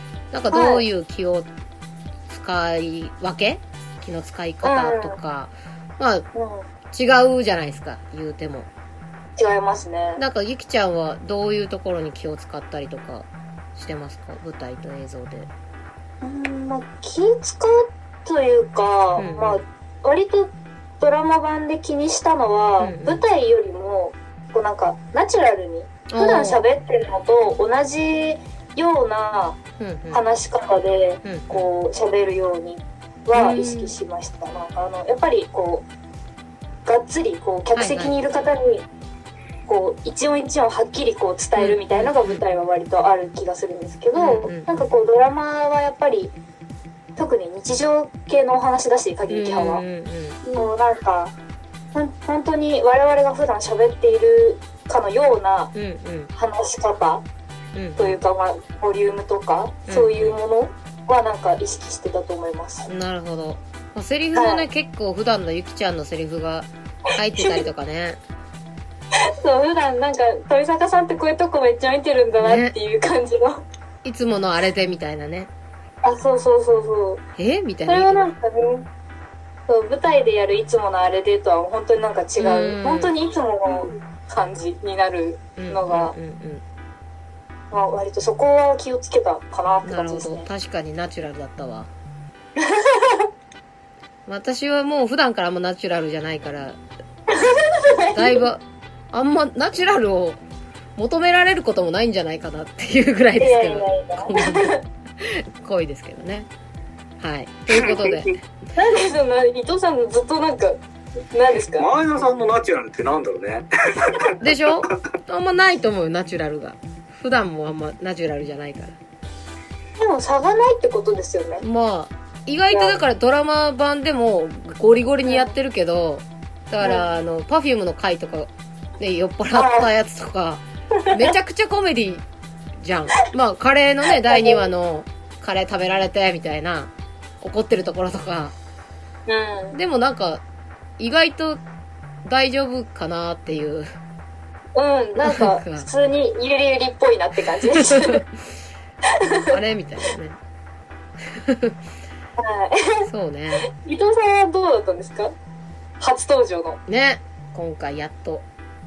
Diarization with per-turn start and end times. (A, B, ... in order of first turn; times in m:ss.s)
0:00.3-0:01.5 A
0:00.5-0:00.8 B
0:02.3-0:06.2 A
0:04.6-0:05.2 B
0:06.3-0:06.7 B
0:06.9-0:08.7 A
0:09.4-0:10.2 B
0:10.2-0:15.5 A
0:16.2-0:29.6 B
0:19.2-0:19.6 A
0:22.8-0:23.2 A
0:26.1-0:26.6 A
0:29.8-0:30.2 A
0:30.1-0:35.8 B
0:31.2-0:31.7 A
0:33.3-0:33.9 A
0:36.9-0:38.8 B
0:37.8-0:38.2 A
0:39.7-0:46.4 B
0:41.6-0:42.4 A
0:44.2-0:44.7 A
0:47.2-0:49.8 B
0:49.3-0:50.4 A
0:50.4-0:51.3 B
0:51.9-0:55.7 B
0:55.7-0:56.3 A
0:56.4-0:57.2 B
0:57.8-0:58.2 A
0:58.0-1:02.9 B
0:59.9-1:00.4 A
1:02.9-1:08.2 A
1:04.3-1:04.6 B
1:07.4-1:07.6 B
1:09.2-1:13.6 B
1:12.4-1:12.8 A
1:14.0-1:15.5 A
1:16.0-1:17.2 B
1:17.4-1:18.2 A
1:17.9-1:18.8 B
1:19.7-1:26.2 B
1:22.4-1:23.1 A
1:25.6-1:26.6 A
1:27.7-1:30.5 B
1:29.8-1:31.9 A
1:32.6-1:33.3 B
1:34.3-1:36.8 A
1:37.3-1:38.4 B
1:38.1-1:38.6 A
1:39.1-1:40.4 A
1:41.0-1:46.5 A
1:43.4-1:44.8 B
1:47.2-1:48.4 A
1:47.7-1:48.3 C
1:48.8-1:50.8 B
1:51.3-1:51.9 B
1:51.7-1:54.4 C
1:54.4-1:59.0 A
2:00.0-2:01.6 B
2:01.6-2:12.2 A
2:05.3-2:05.5 B
2:06.8-2:07.1 B
2:09.5-2:09.9 B
2:11.0-2:11.3 B
2:12.8-2:18.5 A
2:14.3-2:14.6 B
2:19.3-2:19.8 B
2:19.7-2:20.4 A
2:21.0-2:21.6 A
2:22.2-2:23.9 A
2:24.8-2:28.2 B
2:25.2-2:25.9 A
2:27.8-2:28.2 A
2:29.1-2:29.6 B
2:29.5-2:30.4 A
2:31.3-2:31.8 A
2:32.4-2:33.1 B
2:33.1-2:33.7 A
2:33.6-2:35.3 B
2:36.0-2:36.8 B
2:36.9-2:38.4 A